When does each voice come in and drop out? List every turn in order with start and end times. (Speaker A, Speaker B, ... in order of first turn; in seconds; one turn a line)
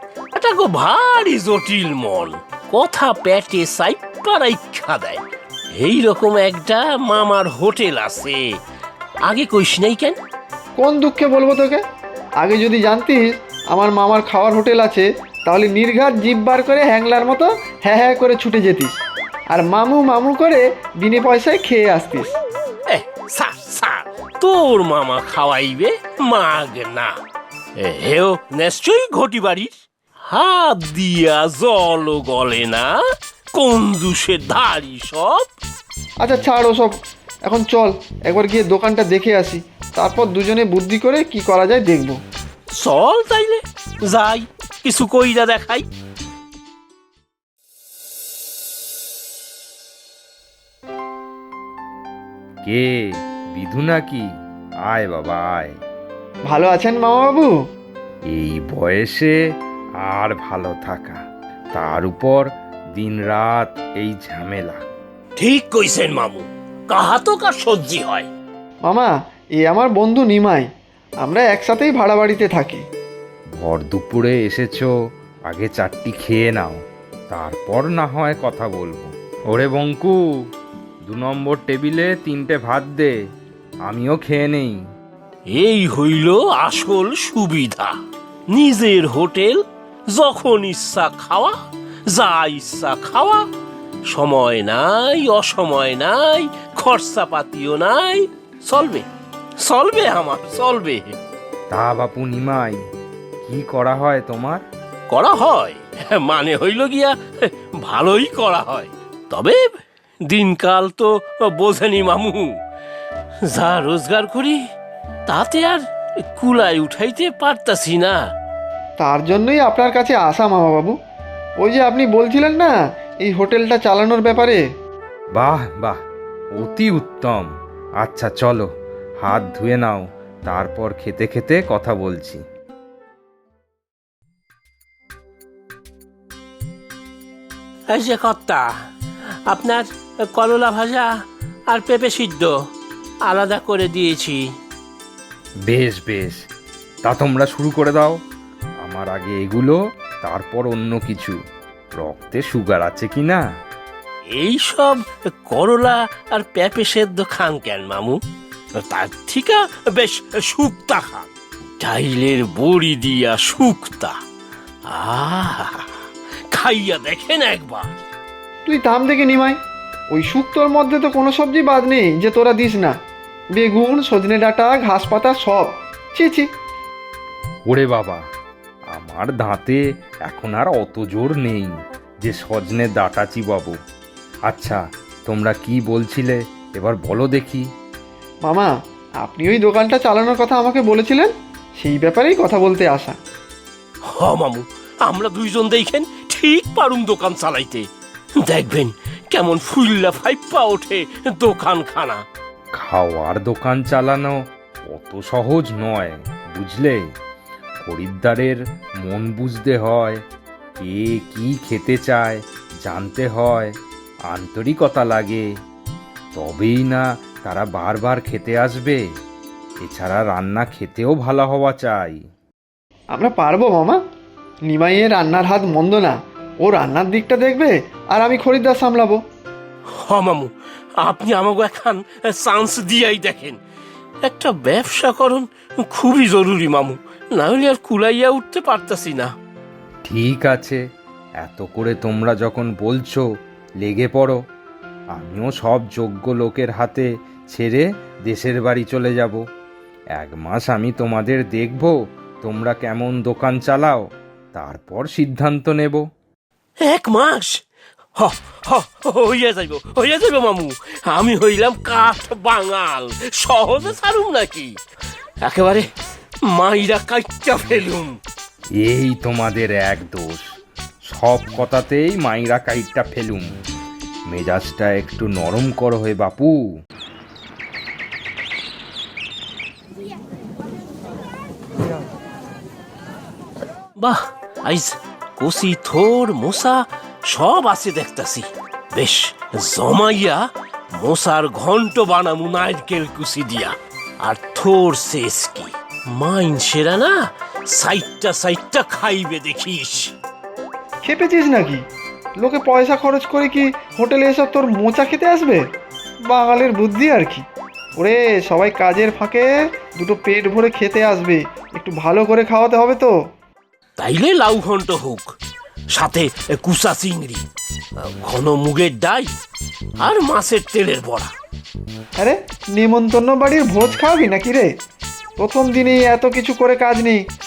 Speaker A: 0.3-5.2
Speaker A: 5.8-8.4
Speaker A: 9.2-10.2
Speaker B: 10.8-11.8
Speaker B: 12.4-19.0
Speaker B: 19.5-22.3
Speaker A: 22.9-27.1
Speaker A: 27.8-29.7
Speaker A: 30.3-33.0
Speaker A: 33.5-35.5
Speaker B: 36.2-36.9
Speaker B: 37.5-42.2
Speaker A: 42.7-45.9
Speaker C: 52.6-54.3
Speaker C: 54.9-55.7
Speaker B: 56.5-57.5
Speaker C: 58.3-59.4
Speaker C: 60.0-61.2
Speaker C: 61.7-64.8
Speaker A: 65.4-68.3
Speaker B: 68.8-70.7
Speaker B: 71.2-72.8
Speaker C: 73.6-74.9
Speaker C: 75.5-76.8
Speaker C: 77.3-80.2
Speaker C: 81.0-83.2
Speaker C: 83.9-84.8
Speaker A: 85.5-88.0
Speaker A: 88.5-89.6
Speaker A: 90.1-91.5
Speaker A: 92.1-93.4
Speaker A: 94.1-99.1
Speaker A: 99.6-101.1
Speaker C: 101.7-102.8
Speaker C: 103.4-104.6
Speaker A: 105.1-112.5
Speaker A: 113.5-114.6
Speaker A: 115.3-115.8
Speaker A: 116.3-118.2
Speaker B: 119.0-121.0
Speaker B: 121.6-124.6
Speaker C: 125.3-126.0
Speaker C: 126.5-127.5
Speaker C: 128.0-128.7
Speaker C: 129.2-132.4
Speaker A: 137.9-138.7
Speaker A: 139.5-141.1
Speaker A: 141.7-142.5
Speaker A: 143.3-144.4
Speaker C: 145.7-146.4
Speaker C: 147.0-148.2
Speaker C: 148.8-151.4
Speaker C: 152.0-153.4
Speaker A: 154.3-158.2
Speaker A: 158.8-164.2
Speaker A: 164.9-165.8
Speaker A: 166.5-167.9
Speaker B: 168.6-169.6
Speaker B: 170.1-172.9
Speaker B: 173.5-176.5
Speaker C: 177.7-178.2
Speaker C: 178.9-183.8
Speaker C: 184.5-187.7
Speaker B: 188.4-193.2
Speaker A: 194.1-197.8
Speaker A: 198.4-202.2
Speaker C: 202.8-204.4
Speaker C: 204.9-207.0
Speaker C: 207.8-210.2
Speaker C: 210.8-213.7
Speaker C: 214.3-215.4
Speaker C: 216.3-219.0
Speaker C: 219.8-222.2
Speaker B: 223.1-224.0
Speaker B: 224.7-229.2
Speaker A: 230.0-233.6
Speaker A: 234.2-239.3
Speaker C: 240.1-240.8
Speaker C: 241.4-243.2
Speaker C: 243.8-244.4
Speaker C: 245.1-249.4
Speaker C: 250.2-256.0
Speaker A: 256.8-257.6
Speaker A: 258.2-264.7
Speaker A: 265.4-265.9
Speaker A: 266.5-268.1
Speaker C: 268.8-270.4
Speaker C: 271.1-273.5
Speaker C: 274.3-276.6
Speaker A: 284.0-300.1
Speaker B: 301.0-301.8
Speaker B: 302.4-305.6
Speaker B: 306.3-307.4
Speaker B: 308.0-313.1
Speaker A: 314.0-315.3
Speaker A: 315.9-317.4
Speaker A: 318.2-319.3
Speaker A: 320.0-321.3
Speaker B: 322.2-324.7
Speaker B: 325.4-327.2